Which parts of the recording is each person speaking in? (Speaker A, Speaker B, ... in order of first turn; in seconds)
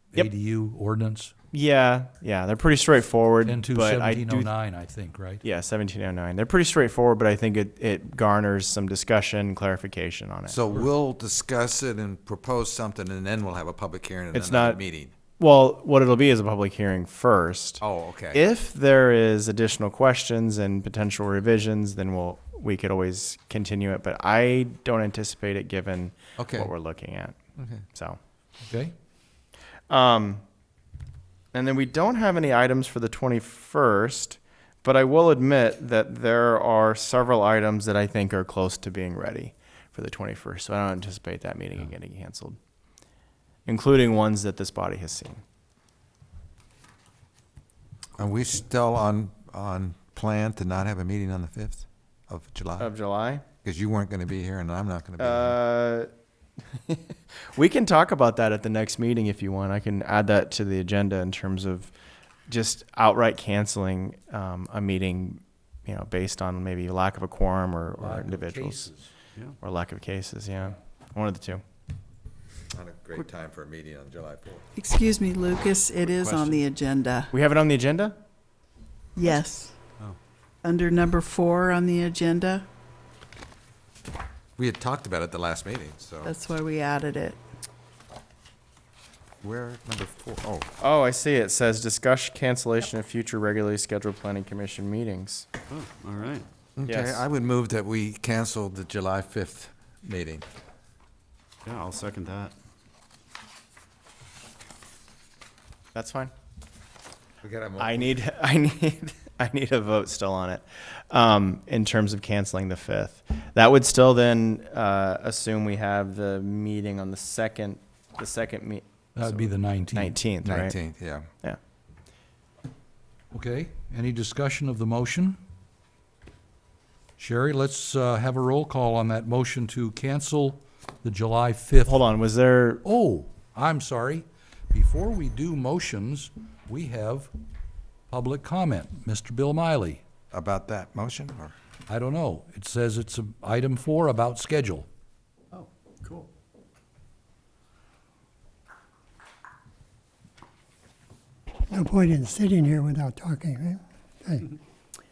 Speaker A: 0.1-1.3, 3.4-5.4, 28.6-28.9, 68.0-69.1, 119.2-120.2, 123.3-125.4, 127.2-132.0, 132.8-137.3, 138.1-140.0, 141.9-144.9
Speaker B: 1.5-4.5, 5.4-10.6, 14.3-14.8, 15.4-27.4, 27.9-28.2, 29.9-30.4, 31.5-42.6, 43.7-45.4, 52.8-53.4, 55.2-56.1, 56.9-61.9, 62.5-68.9, 69.6-71.6, 77.3-78.2, 90.8-95.5, 96.8-97.2, 105.9-106.3, 107.8-120.8, 131.8-132.8
Speaker C: 10.5-15.1, 17.8-18.4, 26.4-26.7, 27.6-27.8, 48.2-52.9, 53.6-55.5, 72.7-74.6, 84.6-86.3, 89.4-90.7, 96.8-100.4, 107.4-108.1, 120.4-121.3, 140.3-141.5
Speaker D: 74.8-77.3, 79.2-79.8, 80.6-82.7, 86.2-87.4
Speaker E: 76.1-76.6, 95.7-96.5, 101.7-102.5, 145.5-146.3
Speaker F: 151.7-154.5